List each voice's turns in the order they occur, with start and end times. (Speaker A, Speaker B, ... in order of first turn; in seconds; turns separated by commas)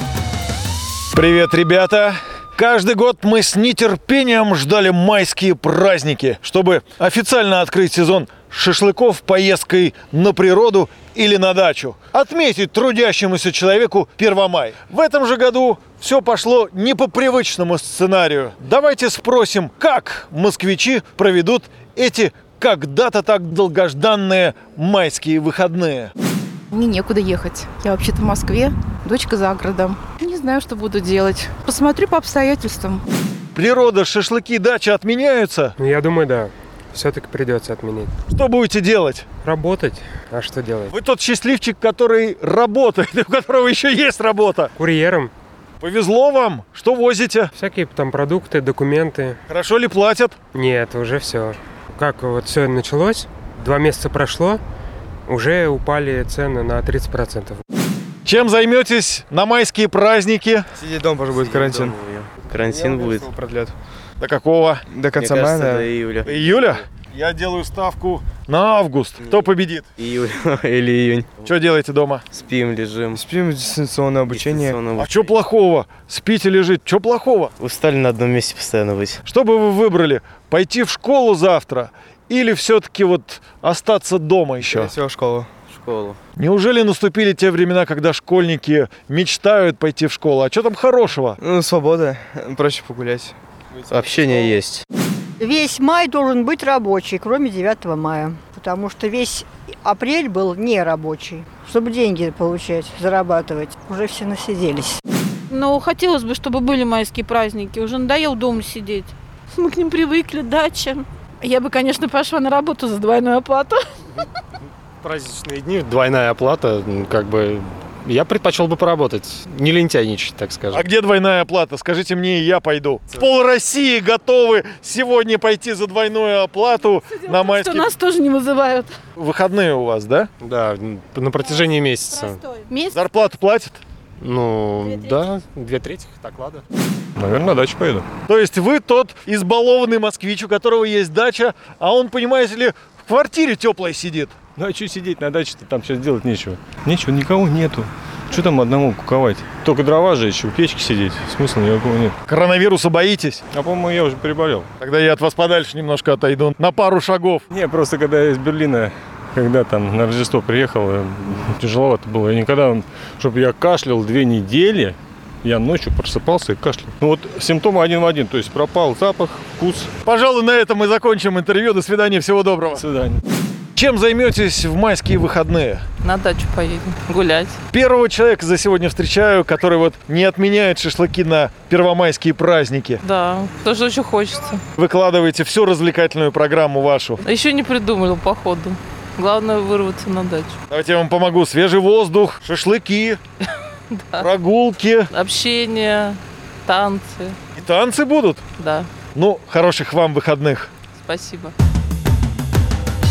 Speaker A: 1.1-26.1, Speaker B: 26.7-33.0, Speaker A: 33.5-35.8, Speaker C: 35.8-38.1, Speaker A: 38.3-39.3, Speaker C: 39.4-40.9, Speaker A: 40.9-44.7, Speaker C: 44.8-45.3, Speaker A: 45.8-47.5, Speaker C: 47.6-49.4, Speaker A: 49.5-50.4, Speaker C: 50.5-54.6, Speaker C: 55.3-57.6, Speaker A: 58.3-60.7, Speaker D: 60.8-62.0, Speaker E: 61.3-63.4, Speaker D: 62.5-63.7, Speaker A: 64.2-64.8, Speaker D: 64.9-65.9, Speaker E: 65.2-66.8, Speaker A: 66.2-69.9, Speaker E: 69.2-71.5, Speaker A: 71.4-72.2, Speaker E: 72.3-73.2, Speaker D: 73.1-74.9, Speaker E: 74.3-75.3, Speaker A: 75.0-77.5, Speaker E: 77.6-79.2, Speaker A: 79.3-84.9, Speaker D: 84.6-85.5, Speaker E: 85.7-86.2, Speaker A: 86.4-91.4, Speaker D: 91.4-93.4, Speaker E: 93.9-94.8, Speaker D: 94.1-94.4, Speaker F: 95.4-105.0, Speaker G: 105.5-113.8, Speaker H: 115.0-120.8, Speaker A: 120.7-127.9, Speaker G: 127.2-129.0, Speaker A: 129.2-130.3, Speaker H: 130.4-132.4, Speaker A: 132.9-133.8, Speaker H: 134.2-136.6, Speaker I: 137.2-138.1, Speaker A: 138.3-144.3, Speaker I: 144.6-152.2, Speaker A: 152.2-153.4, Speaker I: 153.5-154.7, Speaker A: 154.8-157.4, Speaker I: 157.5-169.9, Speaker A: 170.0-172.8, Speaker I: 172.8-173.2, Speaker A: 173.8-175.8, Speaker J: 176.0-177.6, Speaker A: 177.7-183.0, Speaker J: 183.0-184.6, Speaker A: 184.8-187.2, Speaker J: 187.3-190.6, Speaker A: 190.7-193.2, Speaker A: 194.2-195.1, Speaker J: 195.2-197.4, Speaker A: 197.6-198.4, Speaker J: 198.6-198.9, Speaker A: 199.2-200.7, Speaker J: 201.0-201.5